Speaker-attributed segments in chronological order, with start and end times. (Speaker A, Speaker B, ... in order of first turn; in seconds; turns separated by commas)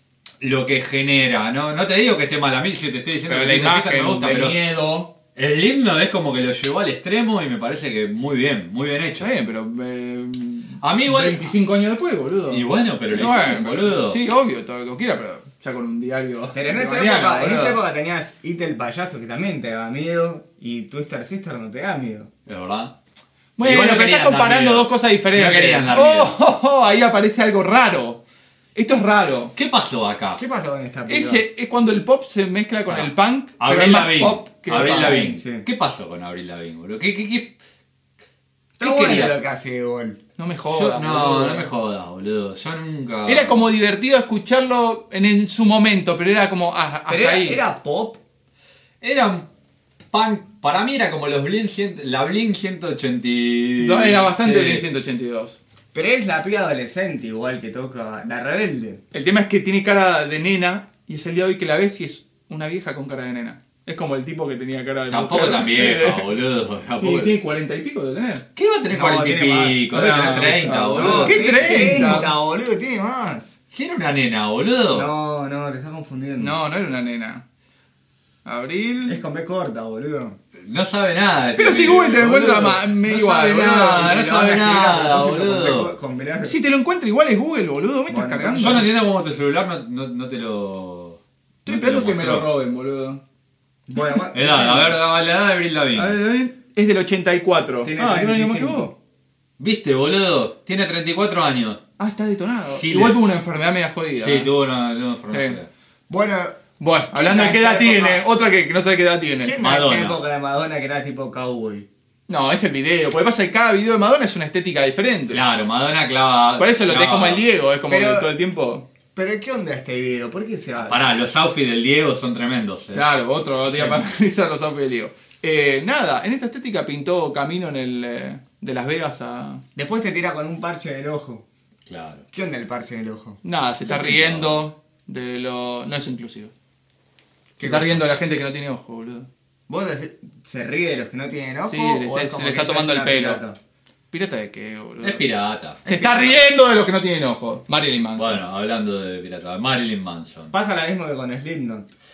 Speaker A: 0.4-4.6, Speaker B: 3.3-5.1, Speaker A: 5.3-9.3, Speaker B: 9.2-17.8, Speaker A: 10.8-11.5, Speaker A: 12.5-14.2, Speaker C: 16.5-22.3, Speaker A: 22.4-22.9, Speaker B: 23.6-28.2, Speaker A: 23.6-26.3, Speaker B: 28.7-29.5, Speaker A: 29.5-30.4, Speaker C: 30.4-31.4, Speaker B: 31.1-35.4, Speaker A: 32.9-37.5, Speaker C: 35.4-35.6, Speaker C: 38.8-40.2, Speaker A: 38.8-39.4, Speaker B: 40.4-41.7, Speaker A: 40.7-43.7, Speaker B: 43.2-47.6, Speaker C: 47.1-48.2, Speaker A: 49.0-49.5, Speaker A: 50.1-54.8, Speaker B: 53.8-55.6, Speaker C: 55.9-59.0, Speaker B: 59.1-66.3, Speaker A: 65.1-67.3, Speaker B: 67.0-68.4, Speaker A: 68.5-72.2, Speaker C: 68.9-69.8, Speaker B: 69.9-72.3, Speaker C: 70.9-73.5, Speaker A: 73.7-75.1, Speaker C: 74.9-76.5, Speaker B: 76.4-77.4, Speaker B: 78.4-79.2, Speaker C: 79.0-80.4, Speaker A: 80.6-85.9, Speaker B: 81.6-84.2, Speaker C: 83.9-86.5, Speaker B: 86.4-88.9, Speaker C: 88.1-88.9, Speaker A: 88.5-92.5, Speaker B: 91.7-93.2, Speaker C: 93.9-95.0, Speaker A: 94.3-96.2, Speaker B: 96.0-98.9, Speaker C: 97.8-98.9, Speaker A: 99.6-101.8, Speaker B: 102.0-104.5, Speaker A: 102.7-103.2, Speaker A: 104.2-105.7, Speaker B: 105.3-105.5, Speaker C: 106.1-108.2, Speaker B: 106.8-109.6, Speaker C: 109.4-111.9, Speaker A: 109.6-110.2, Speaker B: 112.3-115.4, Speaker A: 115.3-117.4, Speaker B: 116.6-118.9, Speaker C: 117.9-118.3, Speaker C: 119.1-121.0, Speaker A: 120.8-123.1, Speaker B: 122.9-129.6, Speaker A: 123.7-124.0, Speaker C: 129.8-131.4, Speaker A: 131.9-132.2, Speaker C: 132.3-133.4, Speaker B: 133.4-136.5, Speaker C: 133.9-134.5, Speaker C: 137.6-138.0, Speaker B: 137.6-139.3, Speaker C: 139.7-143.6, Speaker B: 141.7-143.4, Speaker B: 144.1-145.2, Speaker A: 145.0-145.8, Speaker C: 145.8-146.4, Speaker B: 145.8-148.4, Speaker A: 148.2-150.5, Speaker C: 150.5-151.9